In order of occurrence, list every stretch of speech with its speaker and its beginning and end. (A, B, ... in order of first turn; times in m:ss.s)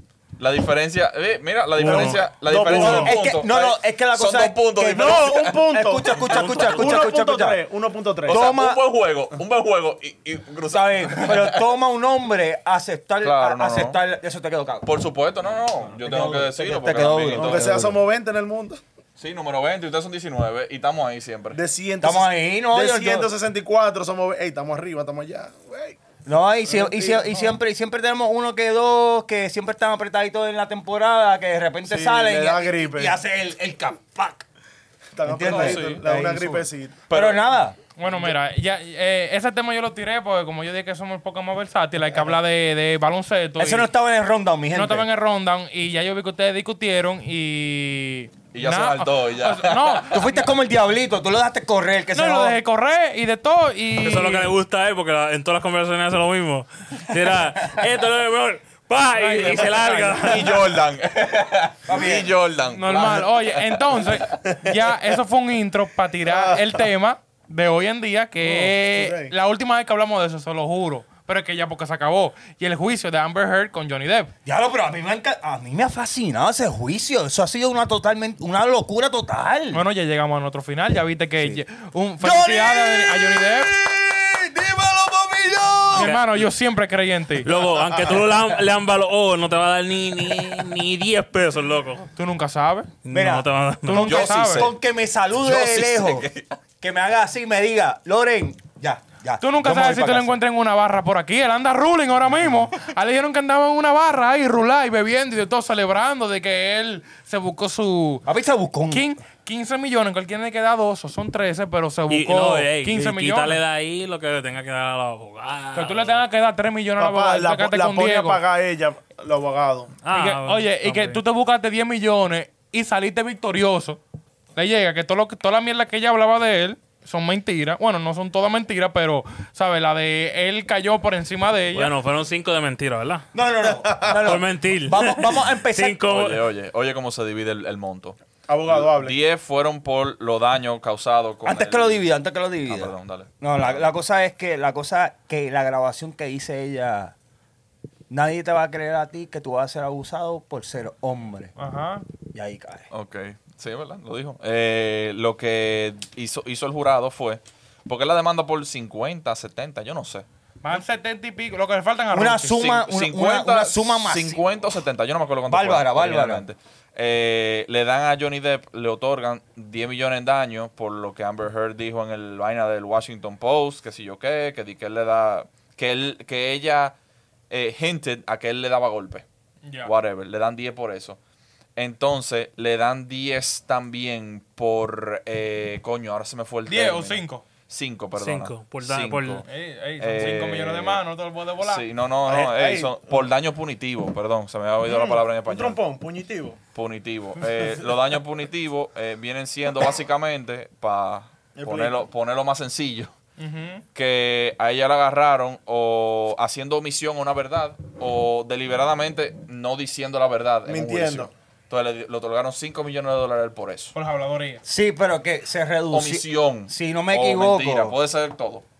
0:00.4-0:06.5 A
0:01.8-0:02.2 B
0:01.8-0:03.2 C
0:02.7-0:07.6 D
0:04.9-0:08.4 C
0:06.3-0:07.1 B
0:08.2-0:08.8 D
0:08.3-0:11.6 A
0:10.7-0:14.9 D
0:13.2-0:14.0 A
0:14.8-0:17.9 A
0:16.0-0:18.0 D
0:17.3-0:18.8 C
0:19.2-0:21.6 A
0:21.5-0:26.0 C
0:22.0-0:23.3 D
0:26.3-0:34.5 D
0:26.7-0:27.5 C
0:31.9-0:33.2 C
0:35.2-0:37.0 C
0:35.2-0:37.8 D
0:35.4-0:36.0 A
0:37.1-0:37.5 A
0:38.0-0:43.9 E
0:38.1-0:38.4 C
0:43.6-0:45.1 D
0:44.7-0:50.5 E
0:48.5-0:50.0 A
0:50.1-0:52.6 D
0:52.1-0:54.6 E
0:54.0-1:00.6 B
0:59.2-1:00.4 E
0:59.4-1:04.3 A
1:01.9-1:02.3 D
1:02.7-1:14.3 E
1:06.2-1:06.8 C
1:08.4-1:09.3 C
1:14.4-1:19.8 D
1:19.7-1:23.7 E
1:22.2-1:26.1 D
1:25.9-1:26.4 B
1:25.9-1:27.5 E
1:27.4-1:32.1 B
1:32.2-1:32.9 E
1:33.0-1:34.2 B
1:33.1-1:36.3 D
1:33.8-1:34.7 E
1:34.0-1:34.7 A
1:35.4-1:36.6 A
1:36.8-1:40.4 D
1:39.4-1:48.2 E
1:48.3-1:49.2 D
1:48.9-1:53.6 E
1:52.1-1:56.2 B
1:55.7-1:58.4 E
1:57.0-2:00.0 C
2:00.0-2:01.2 B
2:00.1-2:04.0 E
2:04.6-2:11.9 E
2:11.7-2:13.3 B
2:13.3-2:16.0 D
2:13.8-2:14.2 C
2:14.2-2:16.4 B
2:16.1-2:22.0 A
2:18.5-2:19.2 C
2:21.4-2:27.2 D
2:22.7-2:23.9 A
2:28.1-2:31.5 D
2:31.6-2:32.0 E
2:32.3-2:32.9 D
2:32.9-2:40.2 A
2:40.6-2:42.6 E
2:42.1-2:44.4 D
2:42.5-2:56.9 A
2:45.5-2:46.4 D
2:57.5-2:59.2 A
2:59.6-2:59.9 E
2:59.8-3:01.2 A
3:01.8-3:09.4 A
3:06.7-3:07.4 E
3:08.2-3:09.4 B
3:09.4-3:11.8 E
3:10.0-3:11.0 A
3:11.6-3:15.8 A
3:12.3-3:13.2 C
3:14.8-3:16.6 C
3:16.8-3:23.1 A
3:21.6-3:22.0 C
3:23.4-3:23.8 E
3:24.0-3:34.0 A
3:30.7-3:31.3 C
3:34.0-3:34.6 E
3:34.6-3:38.0 D
3:35.9-3:38.6 A